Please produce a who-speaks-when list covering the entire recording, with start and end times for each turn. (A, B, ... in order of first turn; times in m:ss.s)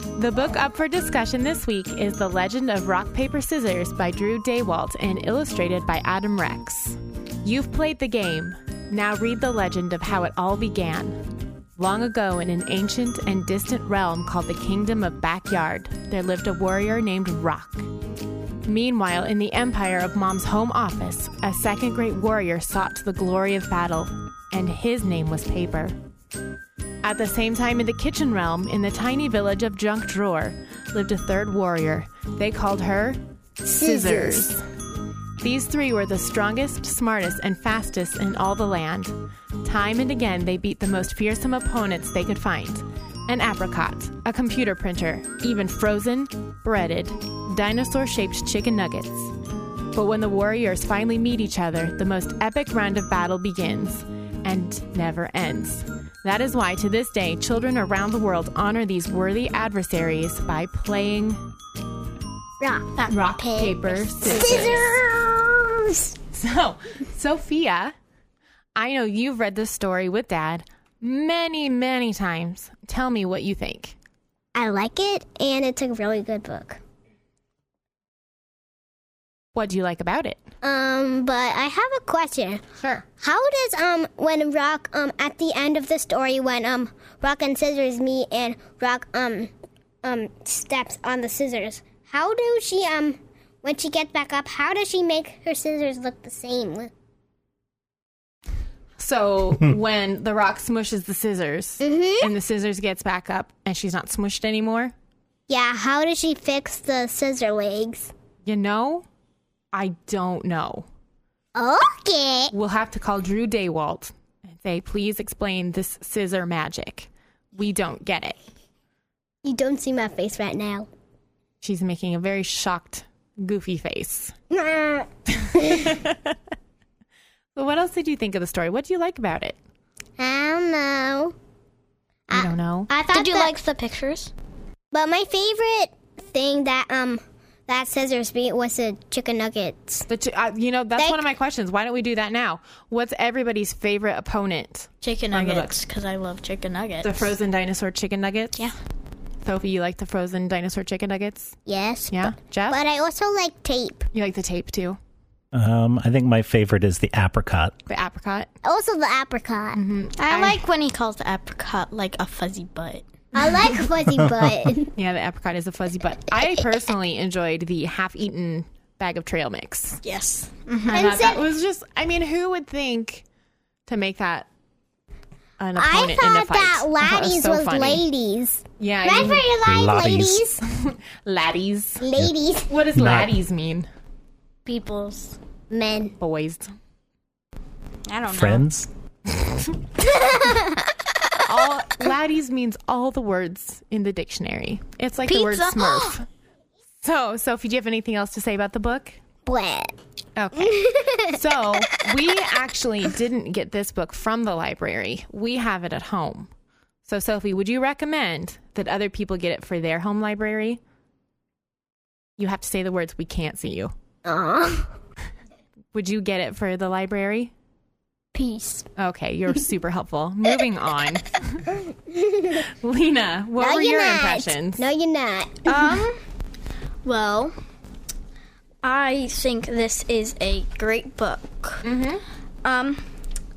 0:00.2-0:11.2 A
0:11.8-0:17.9 A
0:18.6-0:25.9 A
0:27.0-0:34.6 A
0:33.7-0:34.4 B
0:35.4-0:49.3 A
0:50.0-1:01.4 A
1:02.6-1:06.1 B
1:03.1-1:04.9 A
1:06.3-1:07.9 A
1:08.8-1:14.0 A
1:14.6-1:16.8 B
1:19.6-1:20.4 A
1:20.6-1:29.5 B
1:30.0-1:36.9 B
1:39.0-1:44.9 A
1:41.8-1:42.3 B
1:45.5-1:48.1 B
1:48.5-1:49.0 A
1:49.7-1:50.9 A
1:51.6-1:52.5 B
1:52.5-1:58.4 A
1:59.4-2:00.9 B
2:01.6-2:04.4 A
2:04.5-2:05.9 B
2:05.4-2:06.4 A
2:07.6-2:09.6 A
2:10.2-2:11.4 B
2:12.3-2:13.5 B
2:12.3-2:12.9 A
2:13.1-2:14.3 C
2:14.9-2:20.1 B
2:20.1-2:25.7 A
2:21.0-2:21.2 B
2:25.0-2:27.3 C
2:27.0-2:28.7 A
2:29.4-2:31.6 A
2:31.7-2:34.1 B
2:32.1-2:32.8 A
2:34.1-2:35.0 A
2:35.5-2:37.8 D
2:37.9-2:38.5 A
2:38.6-2:39.8 B
2:39.7-2:40.6 A
2:40.2-2:43.0 C
2:43.4-2:45.0 B
2:44.2-2:44.6 D
2:45.0-2:50.0 A
2:50.0-2:51.1 C
2:50.9-2:51.5 B
2:50.9-2:53.2 A
2:53.9-2:54.5 A
2:55.6-2:58.0 A
2:55.8-3:00.6 B
2:58.8-2:59.5 A
2:59.6-3:00.4 D
3:00.7-3:02.0 A
3:02.0-3:02.7 B
3:02.7-3:03.9 A
3:02.9-3:03.3 D
3:04.7-3:05.4 C
3:05.7-3:06.2 B
3:06.2-3:06.7 A
3:08.1-3:08.7 C
3:08.3-3:08.9 D
3:10.0-3:10.9 B
3:11.4-3:16.2 A
3:15.3-3:16.2 C
3:17.0-3:19.2 A
3:19.5-3:20.0 B
3:20.4-3:26.5 A
3:20.6-3:21.4 B
3:27.1-3:30.8 A
3:32.4-3:33.9 A
3:34.2-3:34.9 B
3:35.9-3:37.5 A
3:38.4-3:38.9 B
3:39.0-3:41.7 A
3:41.7-3:42.6 B
3:42.7-3:44.9 A
3:43.6-3:45.9 B
3:45.7-3:46.2 C
3:47.0-3:47.5 C
3:48.8-3:51.8 C
3:51.8-3:52.2 A
3:52.6-3:53.0 C